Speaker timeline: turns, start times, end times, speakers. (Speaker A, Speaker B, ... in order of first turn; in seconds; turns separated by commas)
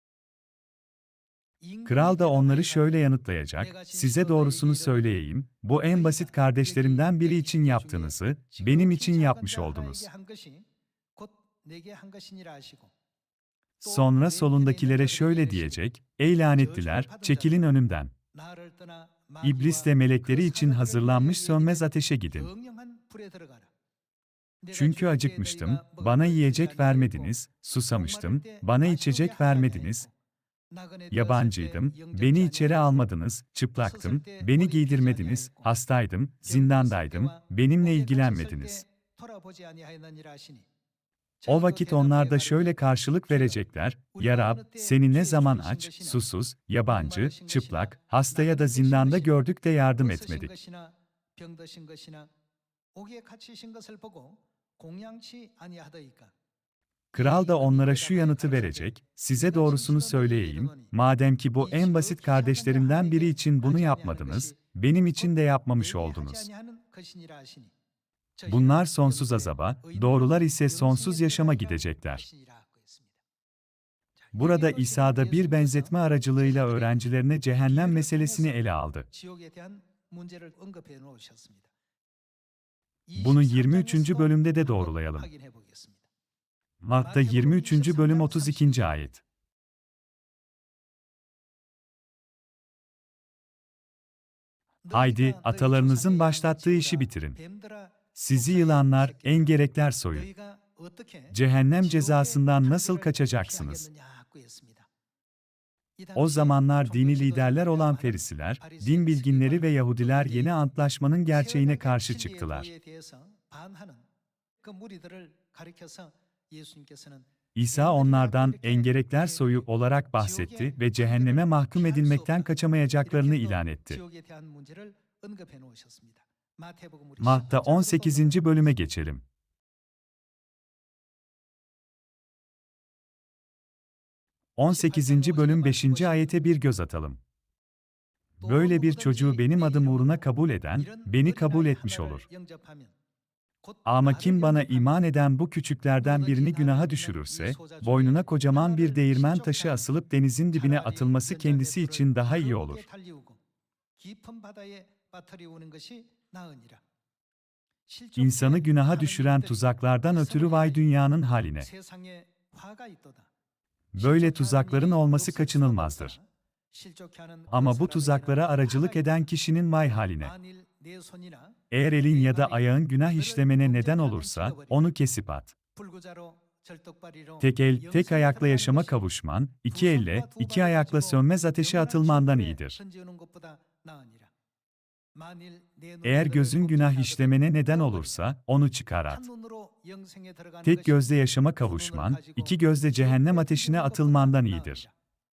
Speaker A: 1.6-3.0, Speaker B: 1.9-10.1, Speaker A: 3.6-5.1, Speaker A: 5.9-12.9, Speaker B: 13.8-18.1, Speaker A: 13.8-15.8, Speaker A: 16.5-17.6, Speaker A: 18.3-23.7, Speaker B: 19.4-22.5, Speaker A: 24.6-27.3, Speaker B: 24.7-30.1, Speaker A: 27.9-30.1, Speaker A: 30.7-33.0, Speaker B: 31.1-38.8, Speaker A: 33.8-35.7, Speaker A: 36.5-40.7, Speaker A: 41.4-42.8, Speaker B: 41.5-50.5, Speaker A: 44.1-46.3, Speaker A: 46.9-49.4, Speaker A: 50.0-52.3, Speaker A: 52.9-56.3, Speaker B: 57.1-66.5, Speaker A: 57.1-60.9, Speaker A: 61.6-64.6, Speaker A: 65.2-67.7, Speaker A: 68.4-73.2, Speaker B: 68.5-72.2, Speaker A: 74.2-81.7, Speaker B: 74.3-79.1, Speaker A: 83.1-86.1, Speaker B: 83.2-85.3, Speaker B: 86.8-89.2, Speaker A: 87.0-89.1, Speaker A: 94.8-104.9, Speaker B: 94.9-97.4, Speaker B: 98.1-100.3, Speaker B: 101.3-103.9, Speaker A: 106.0-110.6, Speaker B: 106.2-112.7, Speaker A: 111.3-114.1, Speaker A: 114.6-128.8, Speaker B: 117.5-124.0, Speaker B: 127.2-129.2, Speaker B: 134.6-137.2, Speaker A: 134.7-136.5, Speaker A: 138.4-142.9, Speaker B: 138.4-142.3, Speaker A: 143.6-145.0, Speaker B: 143.8-152.8, Speaker A: 146.0-149.9, Speaker A: 150.5-153.4, Speaker A: 154.0-156.8, Speaker A: 157.9-160.9, Speaker B: 158.2-161.7, Speaker A: 161.6-163.3, Speaker B: 163.9-166.2, Speaker A: 164.0-169.2, Speaker B: 167.5-170.3, Speaker A: 170.2-174.9, Speaker B: 171.7-175.6, Speaker A: 175.8-179.1, Speaker B: 177.4-182.8, Speaker A: 179.7-184.3, Speaker A: 185.2-188.2, Speaker B: 186.0-189.3, Speaker A: 189.1-194.9, Speaker B: 190.6-194.8